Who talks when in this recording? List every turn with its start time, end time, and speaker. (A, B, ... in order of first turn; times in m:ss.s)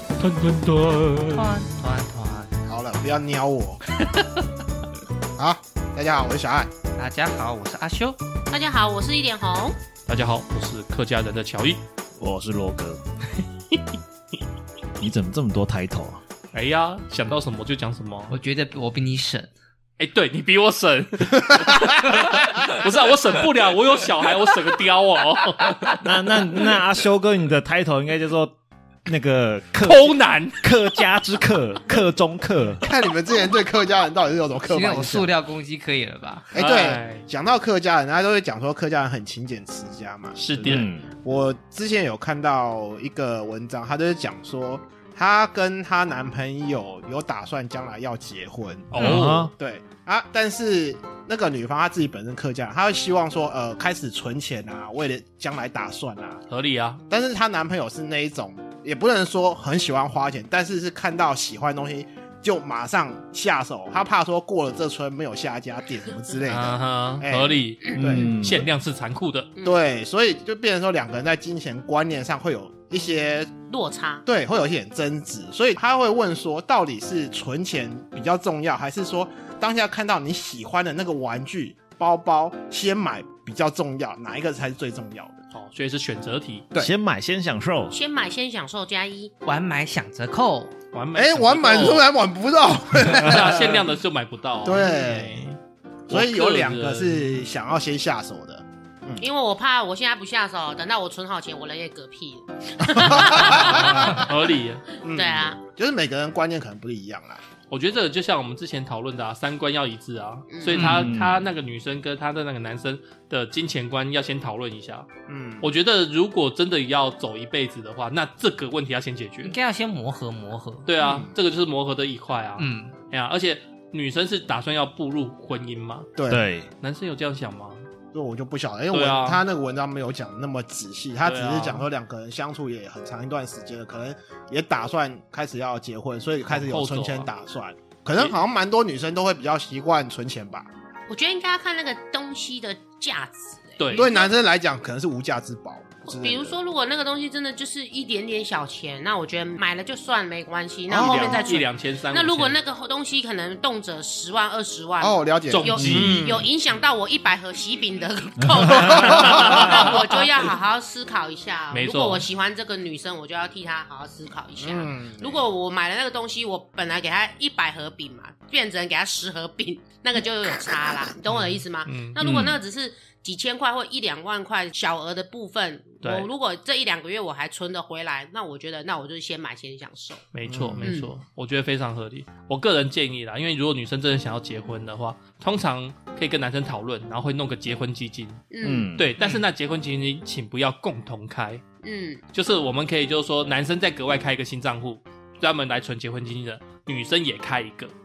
0:00.2-0:01.2 A
0:01.3-0:02.5 B
0:02.7-0:03.8 C
0:05.4-0:06.7 C
0:07.0-0:08.2 B
0:08.5-0:09.8 D
0:10.1-0:11.8 A
0:12.2-0:13.0 E
0:15.0-0:16.2 E
0:16.5-0:18.4 A
0:18.3-0:19.5 B
0:20.0-0:26.0 A
0:26.0-0:28.6 E
0:29.1-0:32.8 E
0:29.8-0:30.6 A
0:32.8-0:35.3 C
0:34.7-0:36.5 B
0:36.5-0:56.4 C
0:36.6-0:37.3 A
0:40.4-0:40.9 A
0:40.6-0:41.1 E
0:48.9-0:49.5 A
0:49.0-0:49.5 E
0:56.5-0:57.0 A
0:57.1-1:08.6 C
1:06.5-1:09.5 A
1:08.0-1:08.7 E
1:09.6-1:13.6 C
1:13.7-1:14.2 D
1:14.3-1:25.4 C
1:25.5-1:26.7 A
1:26.8-1:28.0 E
1:27.9-1:29.3 D
1:29.4-1:30.7 B
1:30.9-1:32.1 A
1:31.1-1:33.8 C
1:33.1-1:35.6 A
1:34.6-1:35.5 C
1:36.1-1:37.4 A
1:36.1-1:39.3 C
1:39.2-1:44.2 D
1:42.8-1:44.3 C
1:43.3-1:44.9 A
1:45.0-1:45.6 D
1:45.0-1:47.4 C
1:47.7-1:55.1 A
1:50.5-1:50.9 D
1:50.7-1:51.1 B
1:50.8-1:51.5 E
1:55.3-1:55.7 C
1:55.6-1:59.6 A
1:59.4-2:00.9 B
2:00.8-2:06.1 A
2:01.0-2:01.3 C
2:02.6-2:03.0 B
2:06.2-2:06.4 C
2:06.3-2:06.7 E
2:06.8-2:07.9 A
2:08.1-2:20.7 C
2:08.9-2:09.4 A
2:11.2-2:11.9 A
2:16.5-2:17.3 A
2:21.1-2:24.3 D
2:23.8-2:24.1 A
2:23.9-2:26.6 C
2:26.1-3:00.3 D
2:30.9-2:31.5 C
2:31.0-2:32.6 A
2:35.0-2:36.5 C
2:35.5-2:36.3 A
2:35.8-2:36.2 E
2:38.7-2:39.7 C
2:38.9-2:40.0 A
2:41.7-2:42.3 A
2:44.6-2:45.5 C
2:51.3-2:52.2 A
2:52.2-2:52.6 E
2:56.0-2:56.3 A
3:00.3-3:11.6 A
3:00.5-3:01.0 C
3:00.8-3:01.1 D
3:08.5-3:08.9 D
3:08.6-3:09.1 E
3:11.8-3:12.2 D
3:12.3-3:17.9 A